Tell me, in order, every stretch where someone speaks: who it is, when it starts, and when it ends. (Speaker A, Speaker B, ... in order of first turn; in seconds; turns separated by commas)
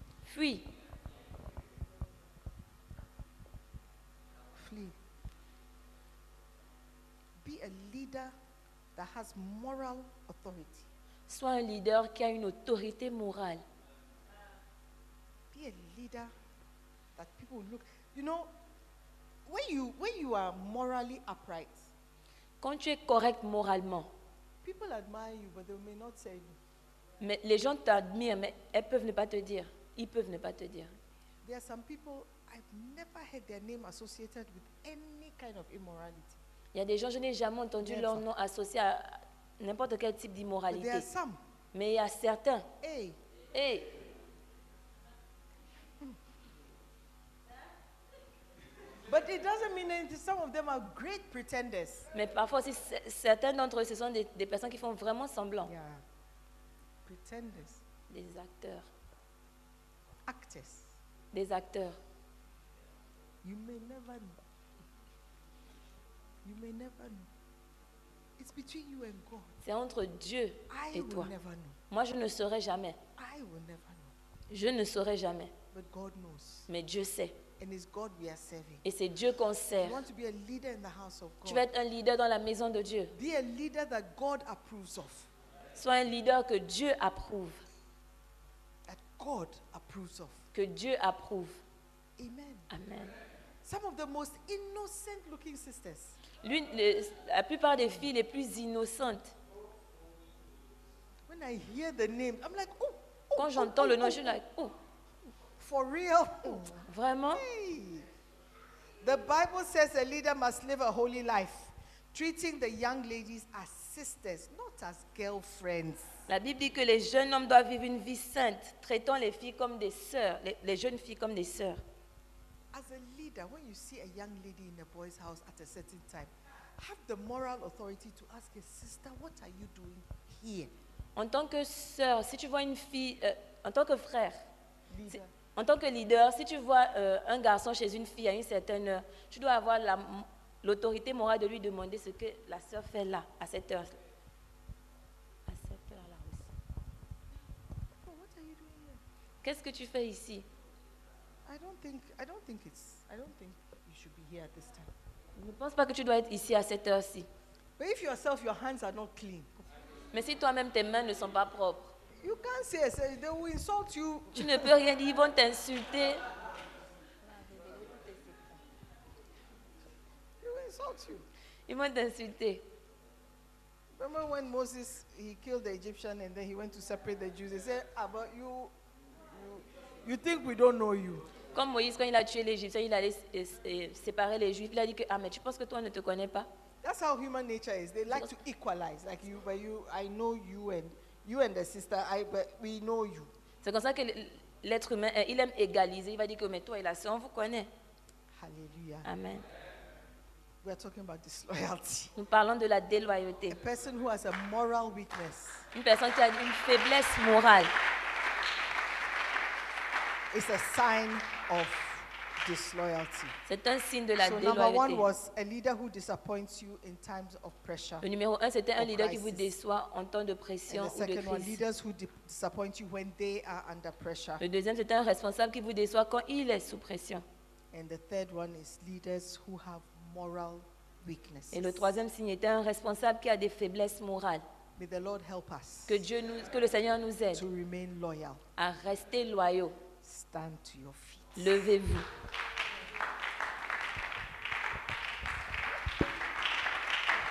Speaker A: 0.2-0.7, Speaker B: 4.5-4.9, Speaker B: 7.4-8.3, Speaker B: 8.9-10.9, Speaker A: 11.3-13.6, Speaker B: 15.5-16.3, Speaker B: 17.1-18.5, Speaker B: 19.4-21.9, Speaker A: 22.6-24.1, Speaker B: 24.6-26.6, Speaker A: 27.2-30.9, Speaker B: 31.4-36.4, Speaker A: 36.7-41.1, Speaker B: 37.8-38.2, Speaker B: 40.7-41.4, Speaker A: 41.7-42.7, Speaker B: 42.8-43.2, Speaker A: 43.5-44.0, Speaker B: 49.1-52.1, Speaker A: 52.1-55.7, Speaker B: 55.6-56.0, Speaker B: 57.0-57.8, Speaker A: 58.1-58.9, Speaker B: 60.3-60.9, Speaker A: 61.3-62.0, Speaker B: 63.4-64.4, Speaker B: 66.4-67.3, Speaker B: 68.4-69.5, Speaker A: 69.6-71.3, Speaker B: 70.7-71.8, Speaker A: 71.9-73.0, Speaker B: 73.2-74.1, Speaker A: 74.5-75.5, Speaker B: 75.7-76.7, Speaker A: 76.7-77.4, Speaker B: 77.6-78.8, Speaker A: 78.8-80.0, Speaker B: 79.8-81.7, Speaker A: 81.4-83.1, Speaker B: 83.1-85.3, Speaker A: 85.7-87.6, Speaker B: 88.8-90.4, Speaker A: 90.5-91.6, Speaker B: 92.2-92.7, Speaker A: 92.7-93.1, Speaker B: 93.6-96.2, Speaker A: 96.4-99.3, Speaker B: 101.3-104.4, Speaker A: 103.3-104.7, Speaker B: 105.6-108.1, Speaker A: 106.5-107.4, Speaker B: 109.0-116.1, Speaker A: 116.3-121.8, Speaker B: 122.7-130.7, Speaker A: 131.2-134.4, Speaker B: 134.9-135.3, Speaker A: 135.1-143.9, Speaker A: 145.5-146.5, Speaker B: 148.0-149.0, Speaker A: 149.4-150.5, Speaker B: 151.4-154.9, Speaker A: 155.3-157.3, Speaker B: 157.8-159.6, Speaker A: 160.1-161.9, Speaker B: 162.2-164.7, Speaker A: 164.3-166.2, Speaker B: 167.2-168.6, Speaker B: 170.4-171.3, Speaker A: 171.7-172.6, Speaker B: 173.9-178.7, Speaker B: 179.3-181.3, Speaker A: 181.5-186.5, Speaker B: 186.8-193.3, Speaker A: 193.6-197.7, Speaker B: 198.3-199.1, Speaker A: 199.0-199.4, Speaker B: 200.6-202.1, Speaker A: 202.2-203.6, Speaker B: 203.5-205.7, Speaker A: 205.7-207.7, Speaker B: 210.3-213.3, Speaker A: 213.5-215.1, Speaker B: 214.2-218.0, Speaker A: 218.0-221.6, Speaker B: 218.8-219.4, Speaker B: 220.7-224.4, Speaker A: 224.4-227.2, Speaker B: 227.7-231.9, Speaker A: 231.5-234.4, Speaker B: 234.8-236.0, Speaker A: 235.9-237.4, Speaker B: 237.3-238.4, Speaker A: 238.6-239.8, Speaker B: 240.0-241.5, Speaker A: 241.3-242.1